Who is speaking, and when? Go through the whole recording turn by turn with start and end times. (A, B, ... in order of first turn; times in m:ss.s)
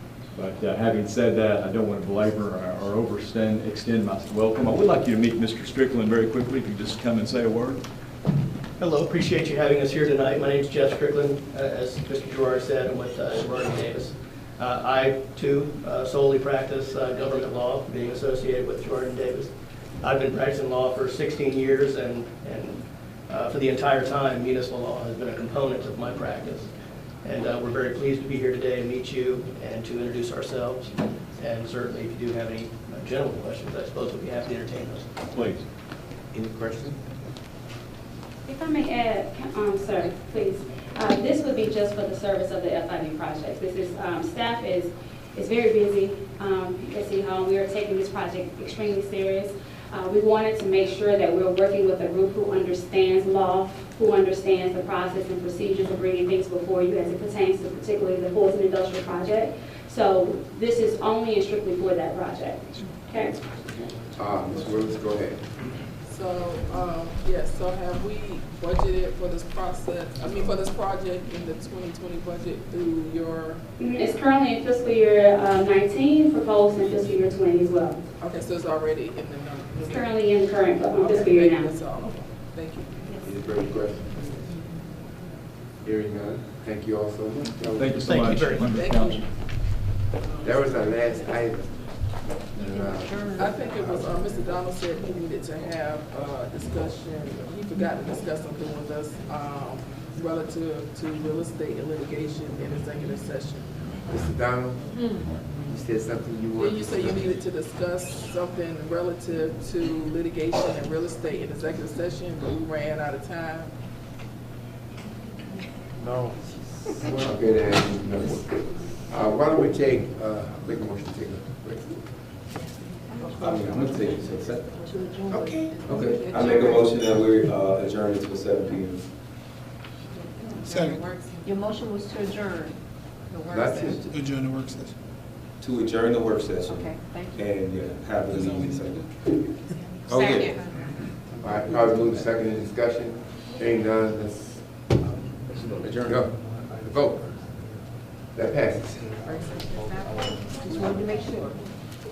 0:00.3-0:07.8 A
0:08.8-0:26.7 B
0:27.2-0:35.1 B
0:35.3-0:35.6 A
0:36.3-0:37.0 C
0:38.4-1:03.4 D
1:03.7-1:05.5 C
1:04.5-1:04.9 E
1:06.0-1:13.6 E
1:13.8-1:18.0 D
1:18.2-1:20.1 E
1:19.8-1:21.8 D
1:20.8-1:23.0 E
1:23.2-1:24.5 C
1:25.8-1:28.2 C
1:27.7-1:29.3 A
1:28.0-1:28.8 B
1:28.4-1:29.3 E
1:30.2-1:31.3 E
1:30.4-1:33.4 C
1:33.3-1:43.7 E
1:44.0-1:47.3 C
1:46.6-1:53.7 E
1:56.9-2:02.0 C
2:03.3-2:09.1 F
2:05.0-2:05.8 G
2:06.2-2:06.8 E
2:11.4-2:12.6 G
2:13.4-2:14.1 C
2:15.6-2:19.5 F
2:20.1-2:20.7 F
2:21.4-2:25.0 C
2:25.8-2:26.3 F
2:26.0-2:27.2 C
2:28.3-2:29.2 C
2:30.8-2:31.5 G